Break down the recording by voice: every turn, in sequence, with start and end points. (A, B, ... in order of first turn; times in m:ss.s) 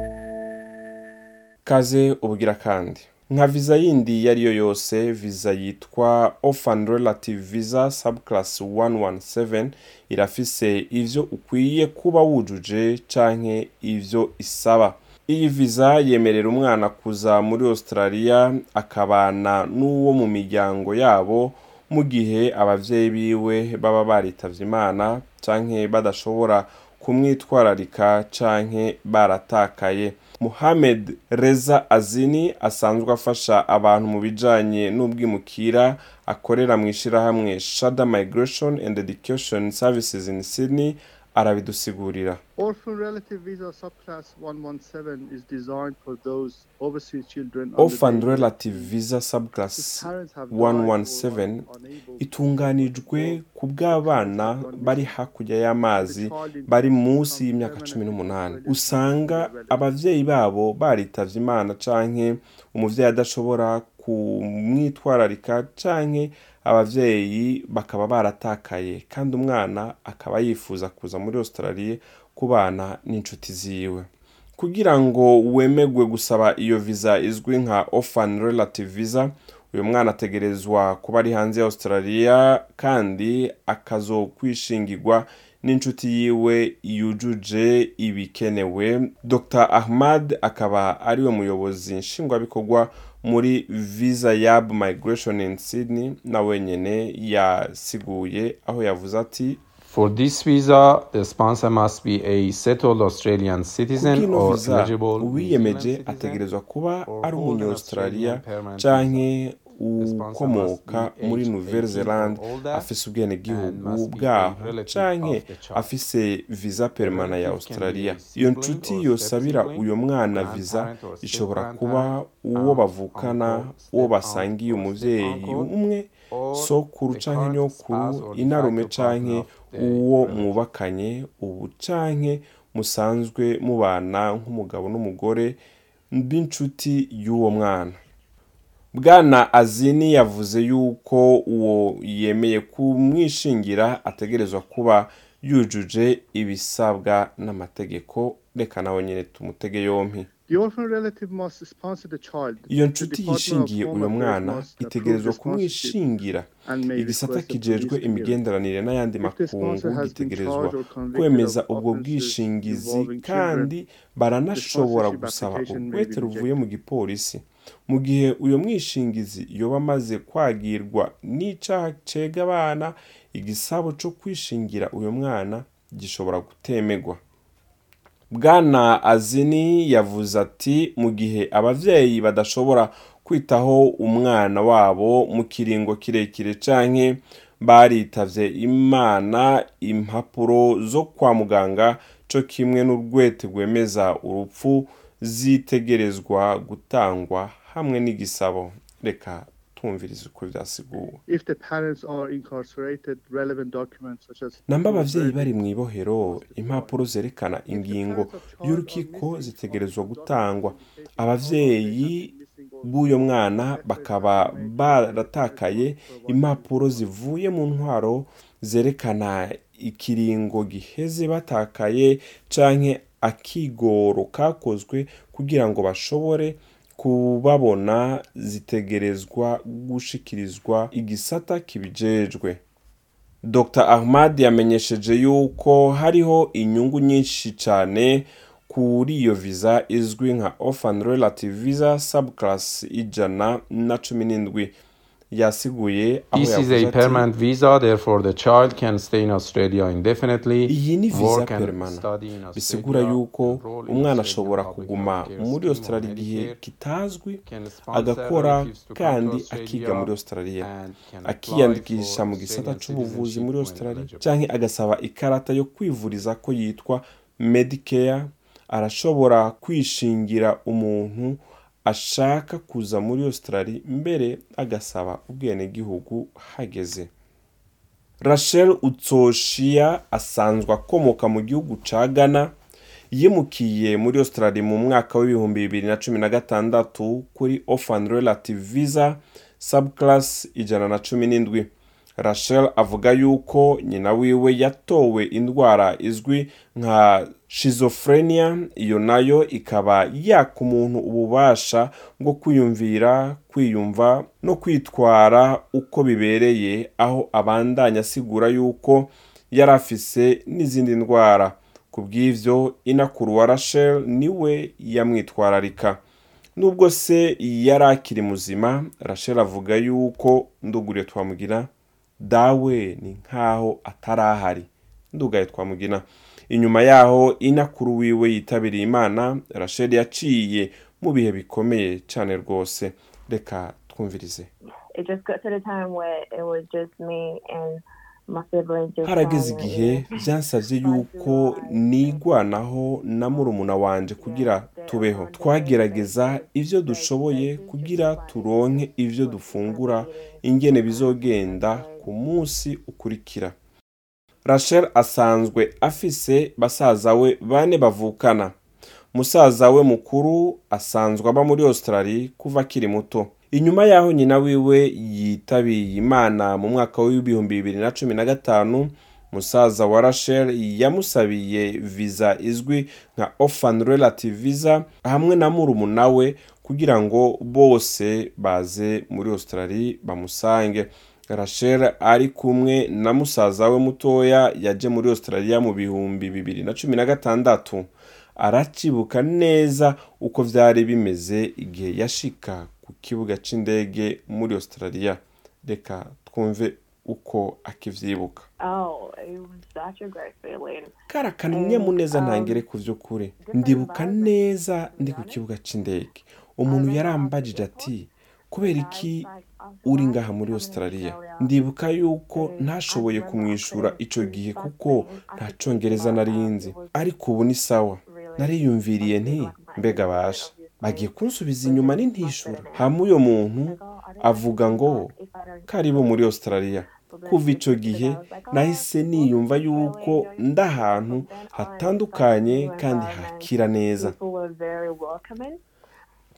0:01.6-0:42.4 A
0:42.6-0:48.9 B
0:47.8-0:51.6 A
0:49.7-0:55.2 B
0:52.2-1:39.6 A
0:56.0-0:59.9 B
1:39.8-1:46.4 C
1:43.9-2:15.6 A
1:47.0-1:49.3 C
1:50.0-1:52.9 C
1:53.5-1:55.9 C
1:57.0-2:05.7 C
2:06.3-2:10.6 C
2:16.1-2:18.0 A
2:18.9-2:30.3 A
2:30.5-2:36.0 B
2:32.7-2:57.2 A
2:36.6-2:38.4 B
2:39.2-2:43.7 B
2:44.5-2:46.6 B
2:58.3-3:21.2 A
3:21.3-3:25.6 B
3:24.7-3:32.3 A
3:26.2-3:27.0 B
3:27.7-3:37.1 B
3:32.8-3:52.6 A
3:53.4-4:04.7 A
4:05.3-4:07.3 A
4:06.3-4:16.6 C
4:10.6-4:20.7 A
4:17.4-4:24.3 C
4:21.2-4:37.1 A
4:38.2-4:42.5 A
4:43.1-5:16.0 A
5:16.6-5:34.5 A
5:34.9-5:52.1 D
5:39.0-5:53.5 A
5:54.4-5:58.5 A
5:59.1-6:38.5 A
6:38.6-6:40.9 D
6:41.1-6:49.3 A
6:41.5-6:42.6 D
6:43.4-6:45.4 D
6:46.6-6:48.0 D
6:48.5-6:51.5 D
6:49.8-7:05.1 A
6:52.3-6:57.4 D
6:58.0-7:15.6 D
7:05.7-7:14.1 A